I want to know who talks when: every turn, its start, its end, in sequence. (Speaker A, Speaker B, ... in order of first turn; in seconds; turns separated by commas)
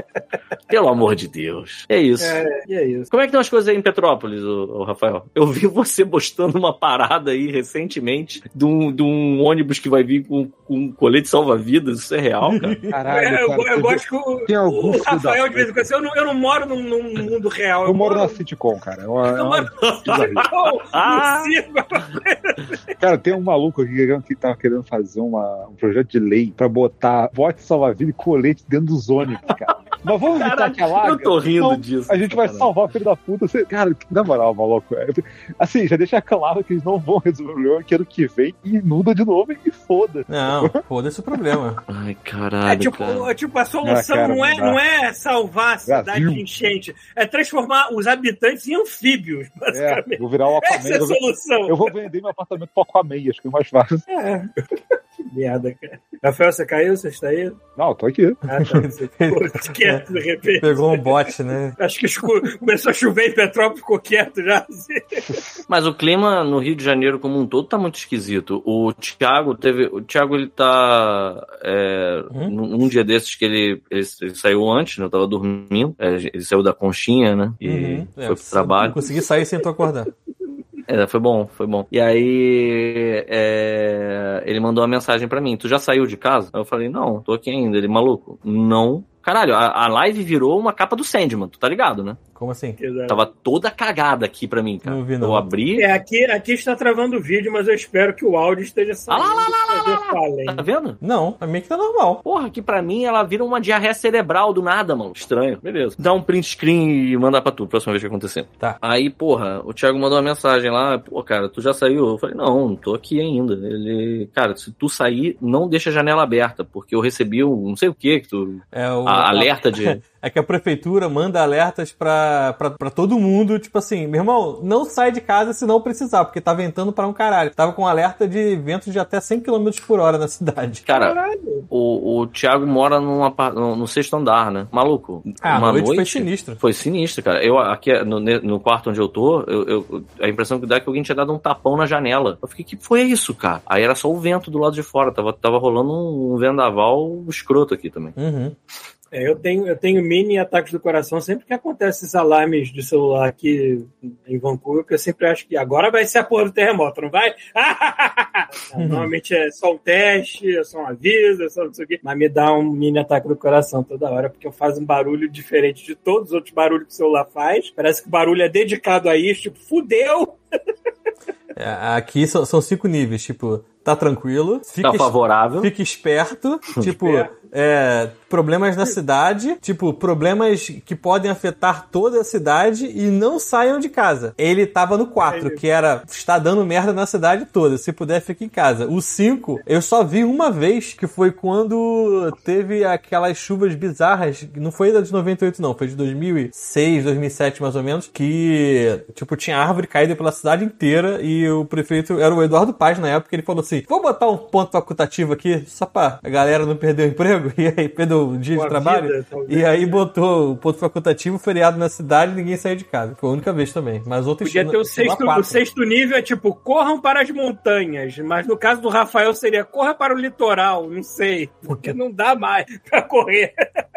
Speaker A: 0.7-2.4, Speaker B: 2.2-3.1, Speaker A: 3.1-12.8, Speaker C: 12.4-13.0, Speaker D: 12.9-15.8, Speaker B: 13.1-18.4, Speaker D: 17.8-20.5, Speaker B: 19.2-22.7, Speaker A: 19.8-21.5, Speaker D: 23.0-40.8, Speaker A: 30.3-32.7, Speaker C: 40.3-41.8, Speaker A: 41.9-43.3, Speaker B: 42.6-51.9, Speaker D: 43.8-44.8, Speaker D: 45.9-46.4, Speaker D: 49.7-54.0, Speaker B: 54.1-54.5, Speaker B: 55.3-57.6, Speaker D: 57.8-58.4, Speaker B: 58.5-61.1, Speaker C: 58.6-61.8, Speaker B: 61.8-65.2, Speaker A: 65.7-79.0, Speaker C: 77.6-80.1, Speaker A: 80.8-92.2, Speaker C: 92.3-92.8, Speaker B: 92.8-93.2, Speaker A: 93.1-95.9, Speaker C: 94.8-95.5, Speaker B: 95.8-100.6, Speaker A: 99.1-101.0, Speaker C: 101.0-102.2, Speaker A: 102.2-120.0, Speaker C: 118.7-130.9, Speaker B: 130.9-131.7, Speaker A: 130.9-131.2, Speaker A: 131.7-148.1, Speaker C: 135.4-136.6, Speaker C: 148.2-148.6, Speaker B: 149.1-170.4, Speaker C: 158.8-159.1, Speaker C: 171.5-215.6, Speaker A: 174.8-175.7, Speaker B: 176.8-177.3, Speaker B: 185.3-185.6, Speaker B: 208.5-210.0, Speaker B: 214.4-223.5, Speaker C: 221.7-221.9